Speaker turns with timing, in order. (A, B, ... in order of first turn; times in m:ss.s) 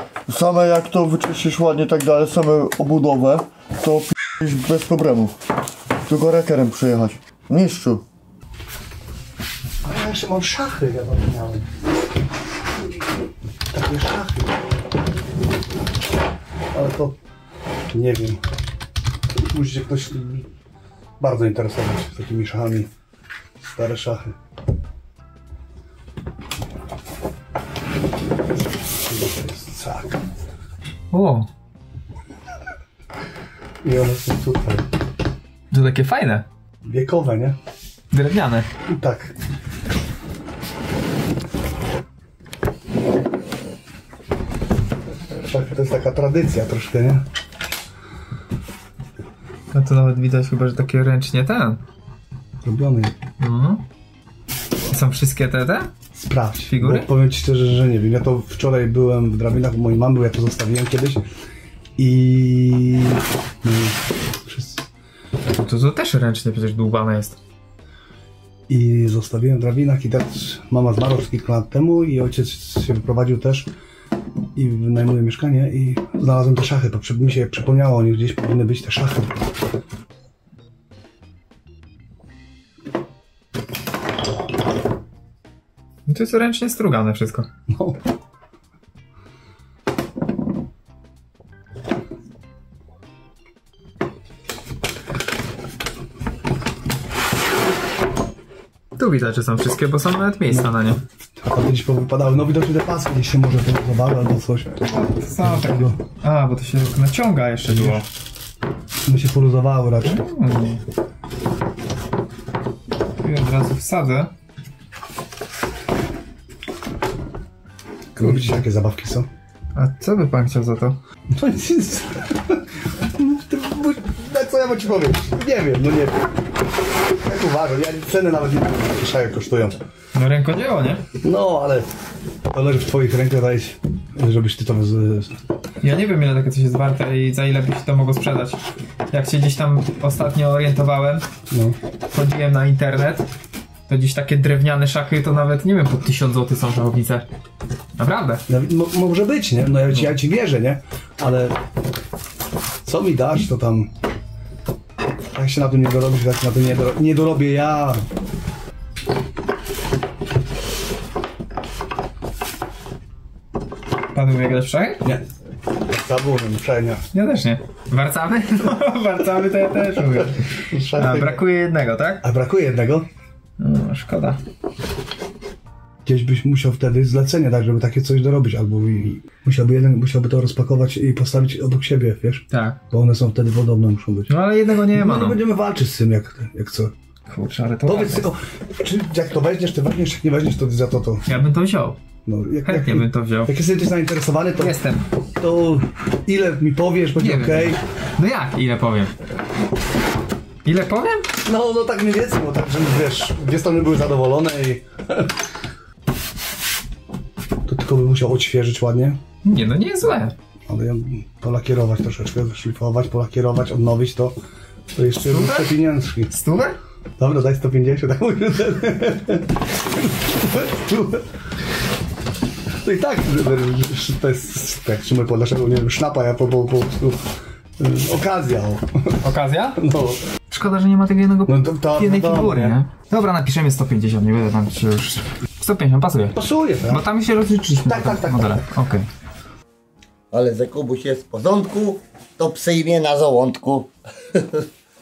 0:00.3-0:05.3 A
0:06.1-0:08.0 A
0:09.8-0:11.6 B
0:13.7-0:14.5 B
0:16.7-0:17.2 B
0:17.9-0:18.4 B
0:19.5-0:20.5 B
0:21.2-0:22.9 B
0:23.7-0:24.3 B
0:29.1-0:30.2 B
0:31.1-0:31.5 C
0:33.8-0:34.8 B
0:35.7-0:36.4 C
0:36.8-0:37.6 B
0:38.1-0:38.7 C
0:38.9-0:39.3 B
0:45.4-0:47.2 B
0:49.7-0:51.8 C
0:52.6-0:53.1 B
0:53.4-0:53.8 C
0:54.9-0:55.9 C
0:56.2-1:01.2 B
0:56.7-0:57.1 C
1:02.0-1:04.8 B
1:05.5-1:07.4 C
1:08.7-1:13.7 B
1:14.6-1:19.5 B
1:26.1-1:27.5 C
1:27.7-1:28.0 B
1:39.0-1:41.0 C
1:41.4-1:44.8 B
1:44.8-1:48.0 C
1:45.4-1:46.0 B
1:47.7-1:48.0 B
1:49.1-1:50.2 B
1:50.0-1:50.8 C
1:53.2-1:54.3 C
1:58.2-1:59.3 B
1:58.2-1:58.6 C
1:59.8-2:01.0 C
2:01.3-2:06.2 B
2:07.2-2:09.8 B
2:10.1-2:11.0 C
2:11.2-2:11.9 B
2:12.5-2:15.4 B
2:15.8-2:21.2 C
2:21.5-2:21.8 B
2:22.1-2:23.2 C
2:23.9-2:27.2 C
2:28.0-2:28.4 C
2:28.5-2:31.6 B
2:32.8-2:33.9 B
2:35.3-2:38.0 B
2:44.1-2:45.0 C
2:45.9-2:47.0 B
2:47.1-2:52.2 C
2:50.6-2:51.4 B
2:52.2-2:53.1 B
2:53.6-2:54.4 C
2:56.0-3:04.3 B
3:02.5-3:02.8 C
3:04.3-3:05.4 C
3:04.9-3:06.9 B
3:07.3-3:08.3 C
3:07.8-3:11.2 B
3:11.2-3:12.0 C
3:12.2-3:14.8 B
3:12.6-3:13.5 C
3:14.6-3:15.1 C
3:15.4-3:17.8 B
3:17.2-3:19.1 C
3:20.6-3:21.3 C
3:21.4-3:25.3 B
3:27.7-3:29.2 B
3:29.4-3:30.3 C
3:30.7-3:34.3 B
3:34.9-3:36.3 B
3:35.2-3:35.7 C
3:36.3-3:36.8 C
3:37.2-3:41.2 B
3:42.8-3:47.2 B
3:47.8-3:49.2 B
3:49.2-3:49.8 C
3:49.8-3:50.2 B
3:50.5-3:56.4 C
3:51.5-3:52.8 B
3:56.3-3:57.0 B
3:56.9-3:59.1 C
3:57.8-3:58.7 B
4:00.3-4:04.6 D